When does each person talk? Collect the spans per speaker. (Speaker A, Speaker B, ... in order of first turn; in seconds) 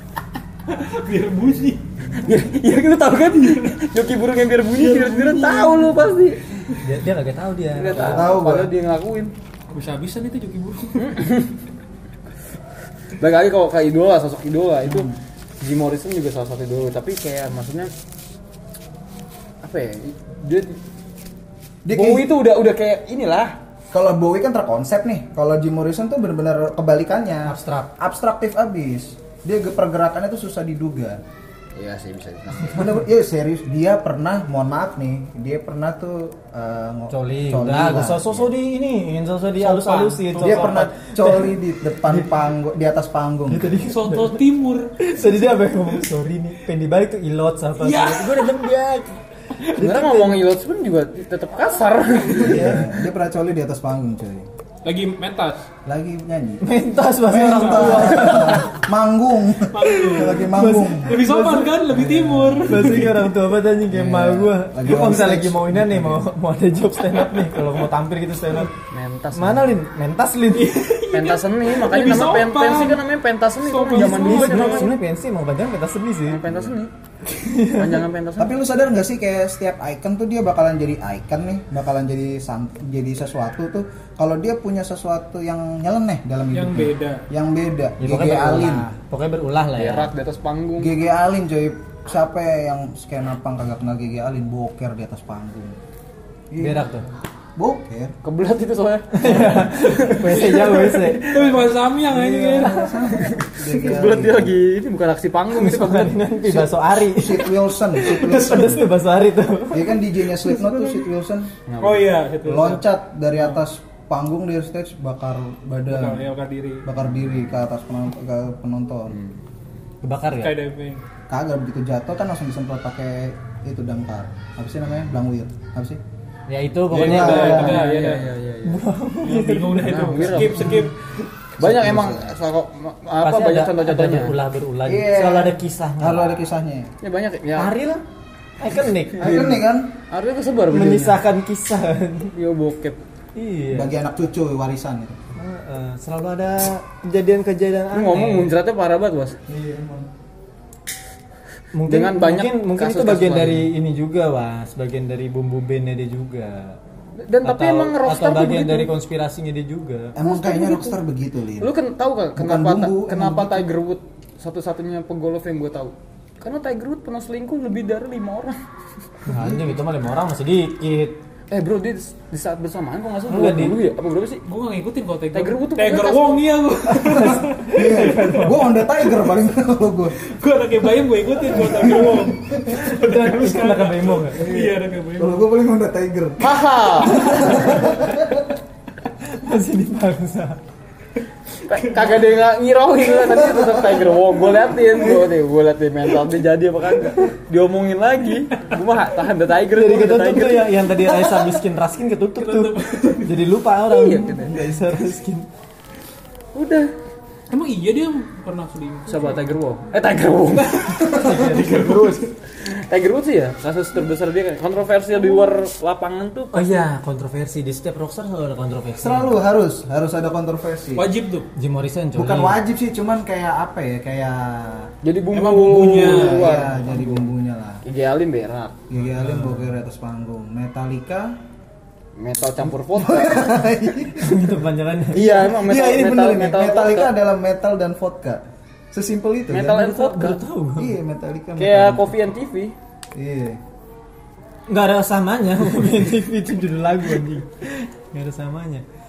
Speaker A: 0.7-1.8, 3.4-3.7, 4.7-6.0, 9.7-11.2, 39.6-40.9, 43.8-45.0, 47.8-48.7, 54.8-55.7, 57.5-58.5, 59.7-63.2, 67.2-67.7, 70.5-73.0, 73.6-74.9, 86.5-87.2, 99.3-103.3, 111.8-112.8, 115.9-116.9, 120.3-121.0, 126.9-128.3, 129.2-130.9, 174.5-179.3, 180.2-185.4, 187.3-188.0, 191.8-192.2, 202.4-203.3, 207.5-209.4, 210.5-212.3, 220.9-221.5, 225.3-226.7
Speaker B: 2.2-6.4, 7.7-9.3, 11.0-11.5, 13.2-15.1, 15.6-17.9, 19.6-20.8, 21.9-23.6, 31.7-33.0, 49.8-52.9, 68.9-69.7, 71.1-74.9, 76.3-76.9, 77.7-78.5, 89.8-90.9, 98.2-101.5, 103.5-106.3, 111.7-112.2, 119.1-119.4, 127.0-128.8, 129.8-130.9, 131.6-134.3, 137.0-137.7, 140.1-141.2, 142.3-143.0, 147.9-149.4, 151.9-153.7, 157.2-158.9, 160.2-161.0, 161.6-168.6, 171.5-174.4, 175.3-176.4, 186.4-187.4, 191.7-200.8, 203.9-204.5, 206.5-206.9, 209.1-216.7, 225.0-227.3, 227.8-228.8, 232.2-233.5, 235.1-237.1, 239.5-240.4, 241.6-242.7
Speaker C: 6.8-8.3, 27.4-27.9, 37.1-42.3, 43.5-44.4, 45.0-50.4, 56.6-58.8, 60.3-61.7, 62.6-68.7, 69.3-71.0, 73.9-76.4, 77.3-78.0, 88.0-90.1, 96.6-97.1, 99.1-101.3, 105.5-110.0, 120.0-120.6, 126.5-127.9, 128.6-130.8, 133.2-136.5, 137.6-138.0, 138.6-139.6, 140.7-142.3, 143.3-143.9, 145.3-148.5, 151.7-156.8, 157.4-160.2, 169.3-171.2, 173.3-173.8, 177.0-178.7, 182.7-184.4, 189.2-190.6, 199.7-205.5, 211.1-211.8, 216.5-219.4, 221.5-222.6, 234.2-235.3, 239.7-240.9, 244.7-248.8
Speaker D: 8.0-8.7, 14.8-15.2, 21.8-22.3, 23.9-31.2, 32.7-38.5, 40.4-43.8, 52.4-54.5, 55.9-56.6, 57.2-63.1, 63.9-66.2, 78.4-88.9, 90.8-95.8, 96.5-96.9, 97.6-98.1, 102.0-104.5, 106.5-108.9, 109.7-111.5, 112.4-116.3, 116.8-119.2, 121.3-126.0, 126.9-127.8, 131.6-132.3, 134.8-136.9, 139.2-139.9, 143.7-145.2, 149.5-150.1, 160.1-161.7, 162.3-163.7, 169.3-169.8, 177.0-180.2, 181.4-182.8, 184.3-188.5, 193.4-194.1, 194.9-195.2, 201.1-201.4, 219.0-221.1, 222.1-224.9, 225.9-227.8, 228.9-231.3, 232.9-234.5, 235.2-238.4, 238.9-239.8, 240.8-242.2, 243.1-243.6